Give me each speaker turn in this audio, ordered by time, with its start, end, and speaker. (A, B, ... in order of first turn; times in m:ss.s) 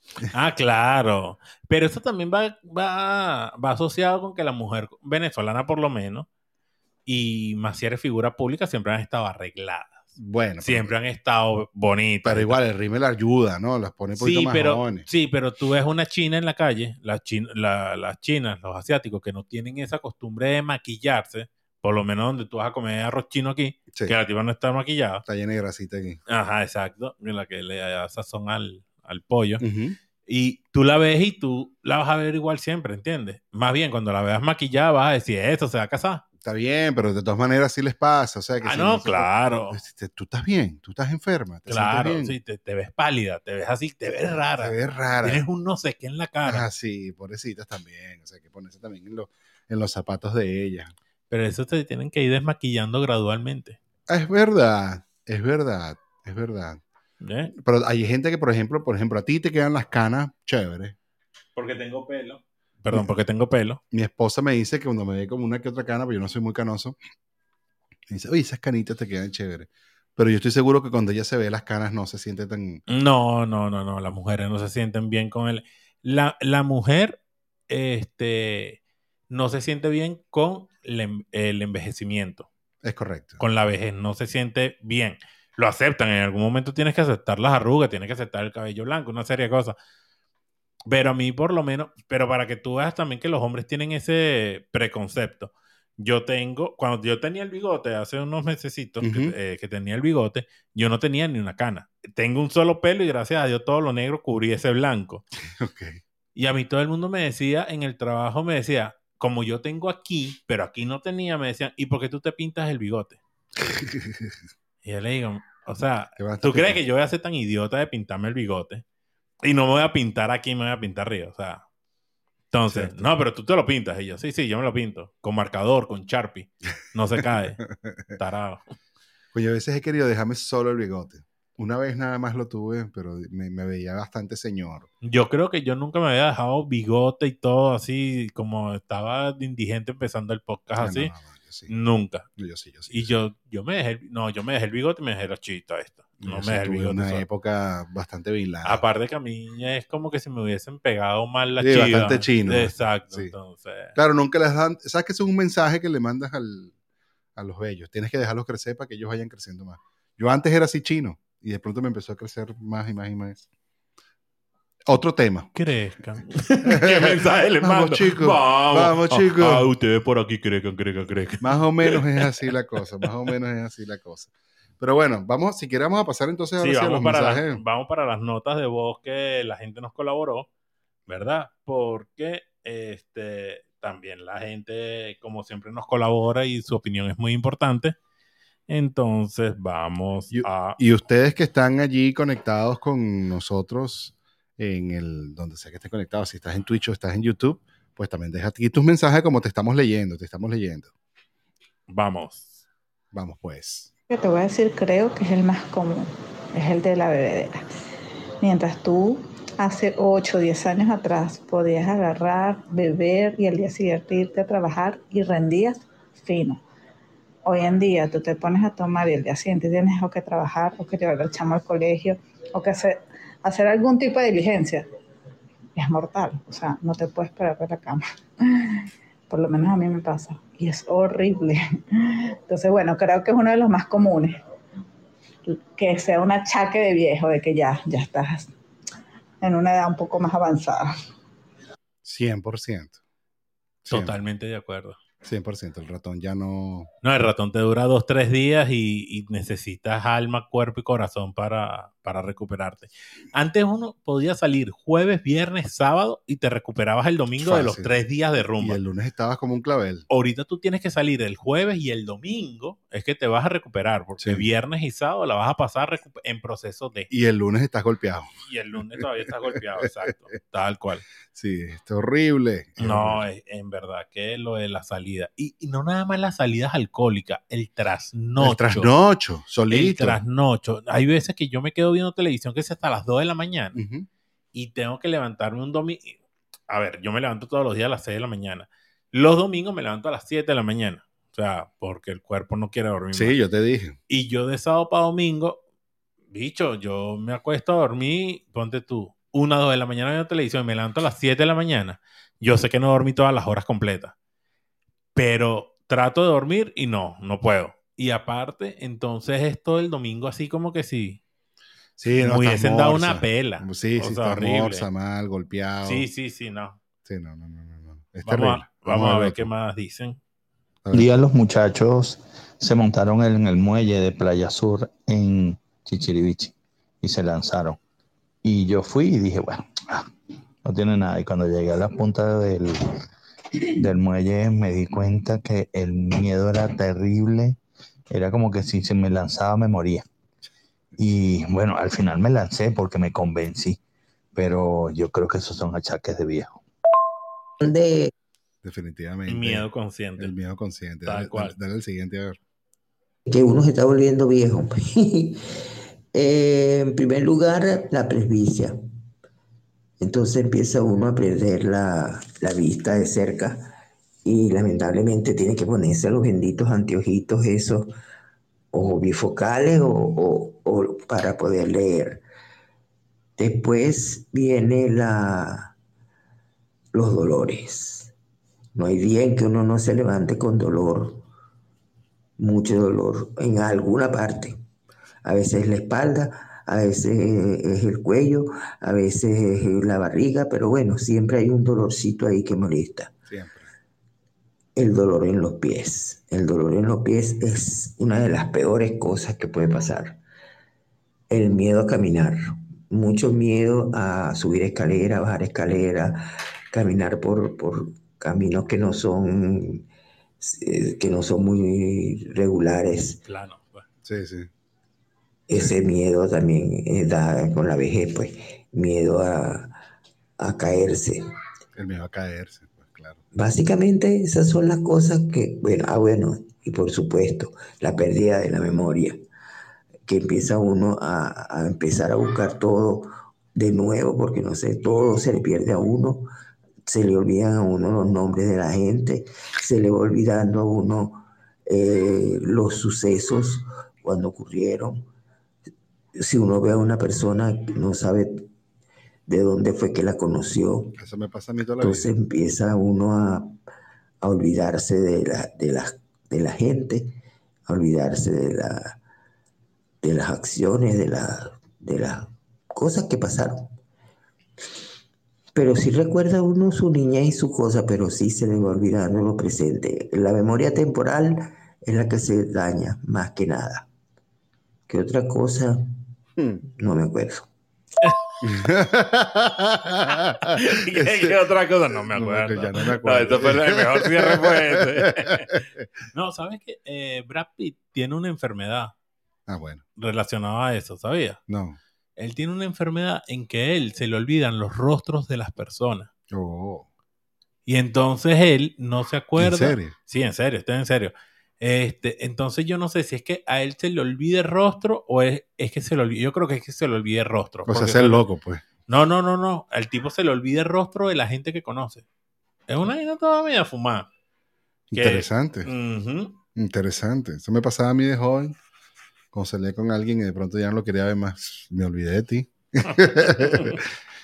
0:00.3-0:06.3 A
0:07.0-0:12.6 A
0:10.2-0:10.9 B
0:12.2-0:15.1 B
0:14.2-0:25.2 A
0:25.2-0:26.2 B
0:26.3-0:29.6 A
0:29.6-0:30.0 B
0:30.3-0:36.2 A
0:36.4-0:42.4 B
0:38.6-0:39.8 A
0:41.7-0:46.6 A
0:44.6-0:45.4 B
0:46.4-0:50.9 B
0:51.3-0:53.8 A
0:54.1-0:56.8 B
0:57.2-0:57.5 A
0:57.5-1:00.9 B
1:01.6-1:03.8 A
1:03.9-1:07.0 B
1:08.1-1:12.8 B
1:12.9-1:18.8 A
1:19.3-1:22.5 A
1:22.8-1:23.4 B
1:23.4-1:29.7 A
1:30.8-1:45.2 A
1:39.0-1:39.3 B
1:45.4-1:46.0 B
1:46.3-1:53.2 A
1:53.6-1:54.3 B
1:54.8-1:58.8 A
1:56.2-1:56.8 B
1:59.4-2:01.6 A
2:02.5-2:07.6 A
2:02.7-2:03.1 B
2:08.2-2:08.6 A
2:09.3-2:14.9 B
2:15.0-2:21.1 A
2:20.8-2:21.7 B
2:21.7-2:22.2 A
2:22.4-2:23.1 B
2:22.9-2:27.2 A
2:26.2-2:28.8 B
2:28.6-2:34.0 A
2:31.6-2:33.3 B
2:33.9-2:36.7 B
2:37.4-2:43.4 B
2:44.9-2:45.5 B
2:45.5-2:52.5 A
2:46.6-2:49.6 B
2:51.4-2:57.6 B
2:56.6-3:00.5 A
3:01.1-3:08.0 A
3:08.7-3:10.8 A
3:10.3-3:20.9 B
3:21.9-3:22.5 A
3:23.1-3:23.9 B
3:24.1-3:27.6 C
3:28.4-3:36.6 C
3:37.4-3:44.8 C
3:45.8-3:54.4 C
3:55.5-3:58.5 C
3:59.4-4:00.9 C
4:02.0-4:03.0 B
4:03.8-4:04.2 B
4:03.9-4:05.0 A
4:05.2-4:06.9 B
4:07.0-4:18.8 A
4:17.4-4:17.9 B
4:18.6-4:20.1 B
4:20.1-4:27.1 A
4:24.2-4:24.4 B
4:27.1-4:28.3 B
4:28.4-4:31.0 A
4:31.3-4:33.2 B
4:32.8-4:38.9 A
4:38.4-4:40.2 B
4:39.7-4:43.8 A
4:43.7-4:44.1 B
4:44.5-4:46.2 A
4:46.7-4:53.4 A
4:53.1-4:54.0 B
4:54.1-4:55.6 A
4:56.3-5:04.1 A
5:05.1-5:11.2 A
5:12.0-5:16.0 B
5:12.2-5:14.9 A
5:15.8-5:16.8 A
5:17.0-5:19.5 B
5:18.2-5:20.2 A
5:20.8-5:21.1 B
5:20.9-5:27.8 D
5:28.4-5:30.1 D
5:30.6-5:32.8 D
5:33.8-5:37.6 D
5:38.1-5:40.0 D
5:41.0-5:43.8 D
5:44.3-5:46.6 D
5:47.6-5:48.1 E
5:48.6-5:49.6 B
5:49.3-5:50.3 A
5:50.2-5:52.4 B
5:51.0-5:51.5 A
5:53.3-5:55.4 E
5:56.1-5:58.8 E
6:00.0-6:03.7 E
6:04.2-6:07.9 E
6:08.7-6:12.2 E
6:13.4-6:15.7 E
6:16.9-6:18.1 E
6:18.7-6:21.2 E
6:22.4-6:24.6 E
6:25.2-6:33.1 E
6:33.3-6:33.7 B
6:34.8-6:40.2 E
6:41.3-6:49.8 E
6:50.4-6:53.2 E
6:53.2-6:53.8 A
6:54.0-6:54.5 B
6:55.5-6:59.7 E
7:00.4-7:01.2 E
7:01.7-7:03.2 B
7:03.3-7:09.2 E
7:10.0-7:16.3 E
7:16.8-7:25.0 E
7:26.2-7:28.5 E
7:29.3-7:31.0 E
7:31.0-7:32.1 B
7:31.8-7:33.6 E
7:34.2-7:37.2 E
7:37.7-7:39.0 E
7:40.0-7:43.7 E
7:45.5-7:53.9 E
7:54.9-7:55.8 E
7:56.7-7:57.5 E
7:58.4-8:01.4 B
8:00.4-8:05.6 A
8:02.0-8:05.8 B
8:06.1-8:08.9 A
8:09.5-8:09.8 B
8:10.0-8:11.4 A
8:11.5-8:11.8 B
8:12.2-8:16.1 A
8:16.3-8:16.8 B
8:17.6-8:28.2 A
8:19.4-8:19.9 B
8:27.7-8:28.6 B
8:28.9-8:32.0 A
8:32.7-8:34.1 A
8:34.9-8:35.7 B
8:34.9-8:36.4 A
8:36.5-8:38.6 B
8:39.3-8:43.8 B
8:43.1-8:43.8 A